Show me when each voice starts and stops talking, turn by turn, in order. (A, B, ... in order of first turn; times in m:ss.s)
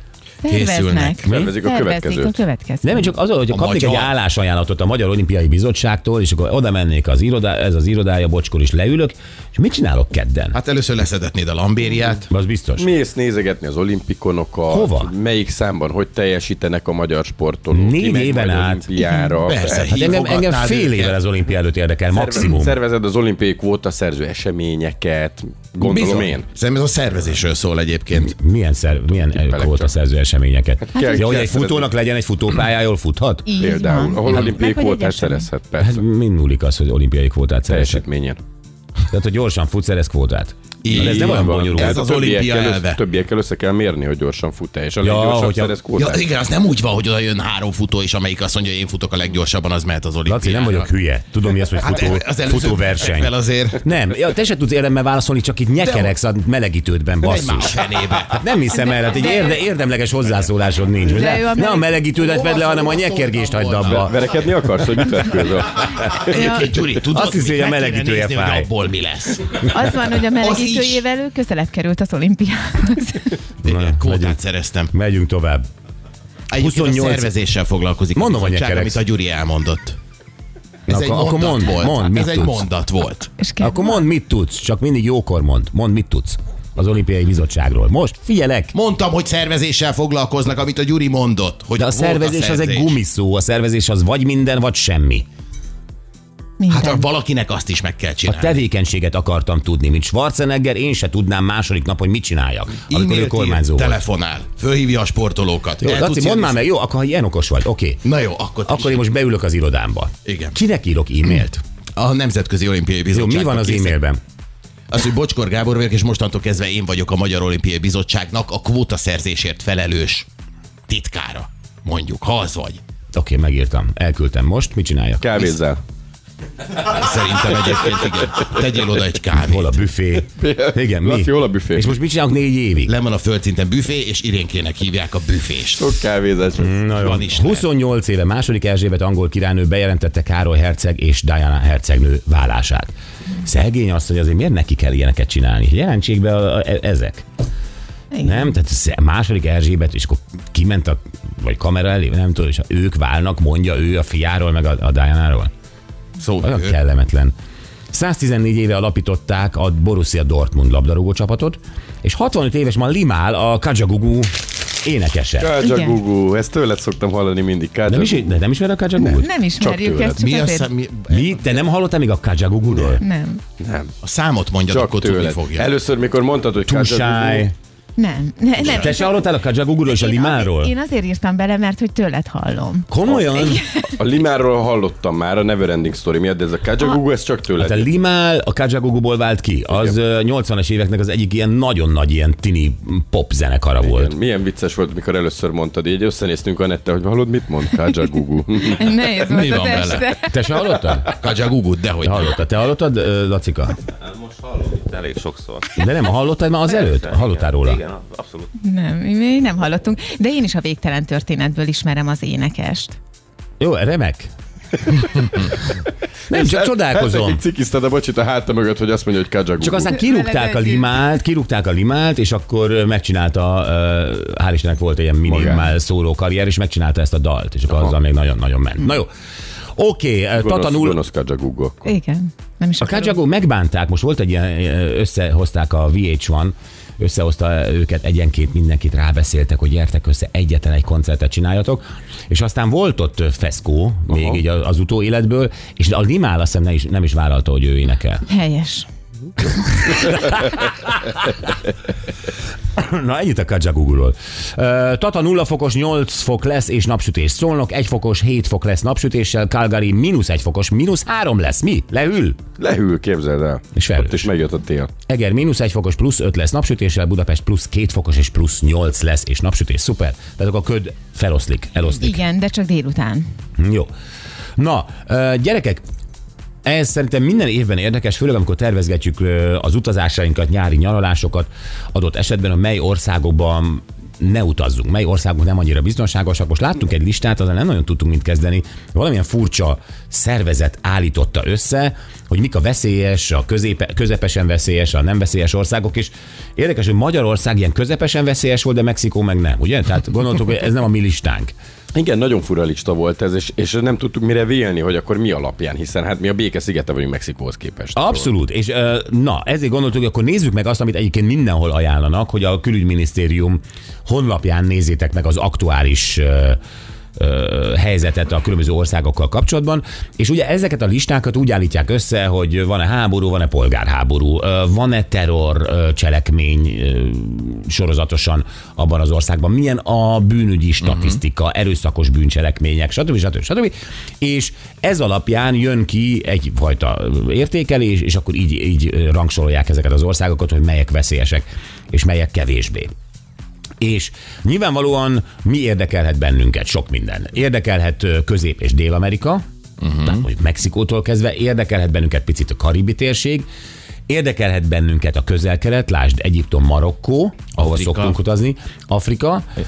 0:00.4-0:03.1 A
0:00.5-0:01.3 B
0:01.2-0:02.4 C
0:02.8-0:10.6 D
0:03.5-0:04.1 B
0:10.6-0:12.3 B
0:12.3-0:12.9 D
0:12.8-0:20.0 C
0:14.7-0:15.1 D
0:17.7-0:18.9 D
0:19.1-0:19.3 A
0:19.4-0:21.2 B
0:19.8-0:22.8 D
0:22.1-0:26.4 C
0:25.8-0:28.4 B
0:28.2-0:33.5 D
0:29.2-0:30.0 C
0:31.0-0:31.3 A
0:31.0-0:31.9 C
0:33.5-0:35.5 A
0:33.6-0:36.0 C
0:35.8-0:38.0 D
0:37.7-0:38.4 C
0:39.1-0:42.0 D
0:40.8-0:43.0 B
0:40.9-0:46.3 C
0:45.0-0:45.8 D
0:46.0-0:50.9 B
0:50.2-0:57.8 D
0:51.8-0:53.8 B
0:55.8-0:56.1 B
0:57.2-0:58.4 B
0:58.3-1:04.2 D
0:58.7-0:59.6 A
1:01.1-1:02.0 A
1:02.2-1:04.1 B
1:03.9-1:06.5 C
1:06.0-1:09.7 B
1:07.0-1:08.7 D
1:09.6-1:13.4 A
1:10.4-1:11.0 B
1:13.6-1:14.9 B
1:13.6-1:14.4 D
1:14.9-1:15.6 D
1:16.5-1:20.0 B
1:16.6-1:17.3 D
1:18.2-1:19.0 D
1:20.9-1:22.7 D
1:20.9-1:23.3 B
1:23.4-1:24.0 A
1:23.6-1:28.7 D
1:28.7-1:33.0 B
1:31.8-1:35.2 D
1:36.6-1:37.0 A
1:36.7-1:38.6 B
1:38.3-1:44.0 D
1:42.8-1:46.6 B
1:45.8-1:48.0 D
1:48.0-1:49.0 B
1:48.7-1:51.6 D
1:50.3-1:50.6 B
1:52.0-1:54.0 B
1:53.1-1:54.2 D
1:54.9-2:00.3 B
2:00.9-2:02.8 B
2:03.1-2:05.6 D
2:05.2-2:05.8 C
2:06.8-2:09.8 B
2:09.3-2:13.0 D
2:10.2-2:12.0 C
2:12.8-2:15.9 B
2:15.8-2:16.8 C
2:16.6-2:22.9 D
2:17.0-2:17.7 B
2:23.4-2:27.2 D
2:28.1-2:28.4 A
2:28.2-2:35.5 D
2:36.2-2:36.8 B
2:36.4-2:37.3 D
2:37.9-2:45.6 D
2:45.4-2:48.4 C
2:45.6-2:46.0 A
2:47.9-2:49.3 D
2:49.0-2:50.7 A
2:49.6-2:50.2 C
2:50.1-2:51.3 B
2:51.1-2:53.0 D
2:53.0-2:53.4 A
2:53.6-2:53.9 C
2:54.0-2:55.7 B
2:54.6-2:57.5 C
2:56.7-2:57.5 D
2:58.0-2:59.2 A
2:58.6-2:58.9 B
2:58.6-3:00.7 D
2:59.8-3:03.9 A
3:02.9-3:03.6 D
3:03.1-3:07.9 C
3:07.6-3:14.1 D
3:13.8-3:18.8 C
3:18.6-3:20.6 A
3:19.1-3:20.2 B
3:20.3-3:21.1 D
3:21.1-3:22.4 B
3:22.0-3:23.8 D
3:24.0-3:25.7 E
3:25.7-3:27.9 D
3:27.1-3:28.5 E
3:28.6-3:33.0 A
3:33.6-3:34.3 D
3:35.0-3:35.5 C
3:36.3-3:40.0 C
3:36.3-3:37.4 D
3:39.6-3:49.1 D
3:40.0-3:40.9 A
3:45.2-3:45.7 C
3:47.7-3:48.0 C
3:49.8-3:51.0 D
3:50.4-3:51.9 C
3:51.8-3:53.2 A
3:52.8-4:08.3 D
4:08.3-4:08.9 A
4:09.6-4:11.5 D
4:12.8-4:22.4 D
4:22.6-4:24.9 C
4:23.8-4:24.3 D
4:25.1-4:32.2 D
4:31.9-4:33.2 A
4:33.6-4:33.9 D
4:34.6-4:35.8 D
4:36.6-5:01.5 D
5:01.9-5:08.3 C
5:08.0-5:16.6 D
5:17.2-5:42.9 D
5:30.9-5:31.1 B
5:43.8-5:49.4 D
5:49.8-5:50.2 B
5:50.0-5:53.5 D
5:54.1-5:59.5 D
5:57.6-5:58.2 B